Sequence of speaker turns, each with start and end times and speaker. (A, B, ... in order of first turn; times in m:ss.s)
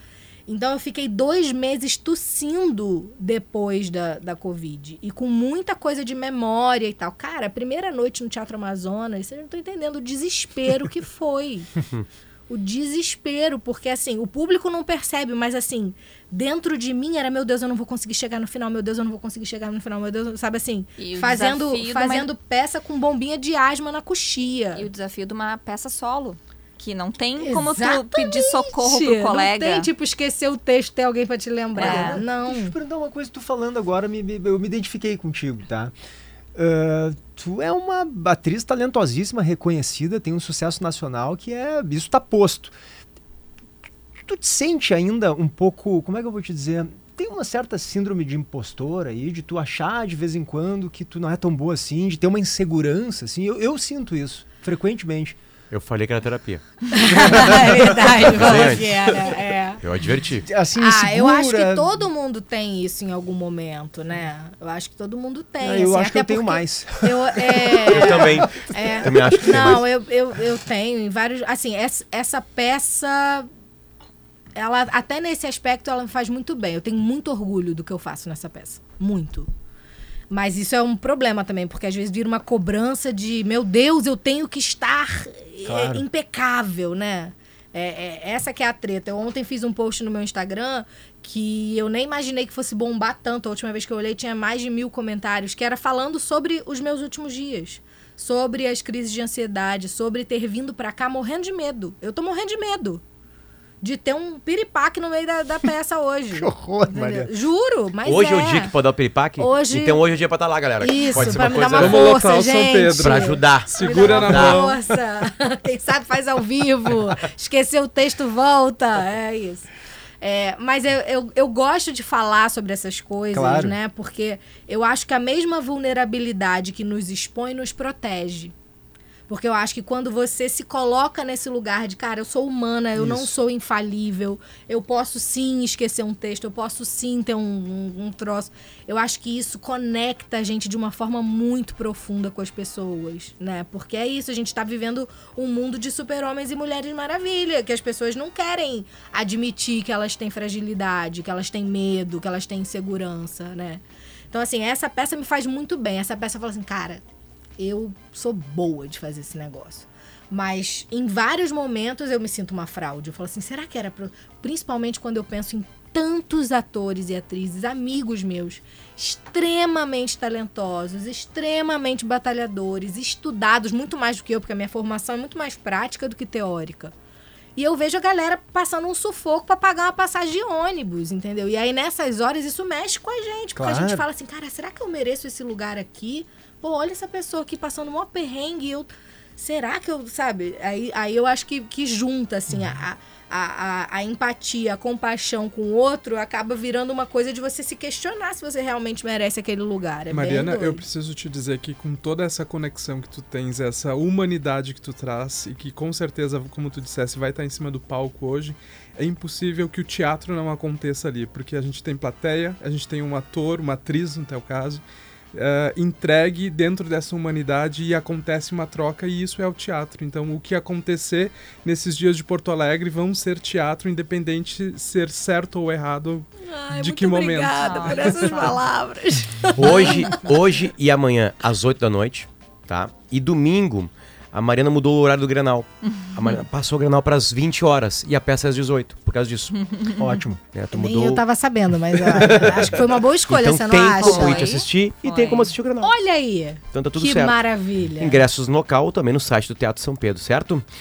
0:00.5-0:11.7 A
0:12.5-0:24.9 A
0:21.0-0:22.3 B
0:24.7-0:29.9 B
0:27.4-0:32.8 A
0:31.8-0:32.2 B
0:31.8-0:35.9 C
0:36.5-0:42.7 C
0:44.2-0:55.4 C
0:55.7-0:57.4 D
0:56.9-0:59.8 A
0:57.1-0:59.0 C
0:58.1-0:59.0 D
0:59.8-1:00.5 D
1:00.3-1:01.9 C
1:00.8-1:13.5 A
1:05.6-1:08.5 C
1:07.9-1:09.8 D
1:09.4-1:09.8 C
1:14.6-1:19.5 A
1:20.3-1:43.0 A
1:25.7-1:26.0 C
1:43.8-1:48.8 A
1:46.3-1:47.3 C
1:48.0-1:52.2 D
1:49.4-1:50.0 A
1:50.8-2:08.5 A
1:51.2-1:54.8 E
1:53.0-1:54.6 D
2:03.3-2:03.8 C
2:09.3-2:37.0 A
2:13.0-2:13.3 C
2:37.6-2:56.9 A
2:57.6-3:20.8 A
3:03.5-3:04.0 C
3:20.1-3:48.5 E
3:46.4-3:50.4 A
3:47.6-3:48.6 B
3:49.6-3:59.5 D
3:55.9-3:56.4 B
3:59.6-4:00.0 B
4:00.0-4:00.4 C
4:00.5-4:01.2 D
4:00.7-4:04.6 A
4:02.2-4:05.9 D
4:04.0-4:05.5 B
4:05.8-4:08.2 A
4:06.7-4:07.4 D
4:08.0-4:10.6 D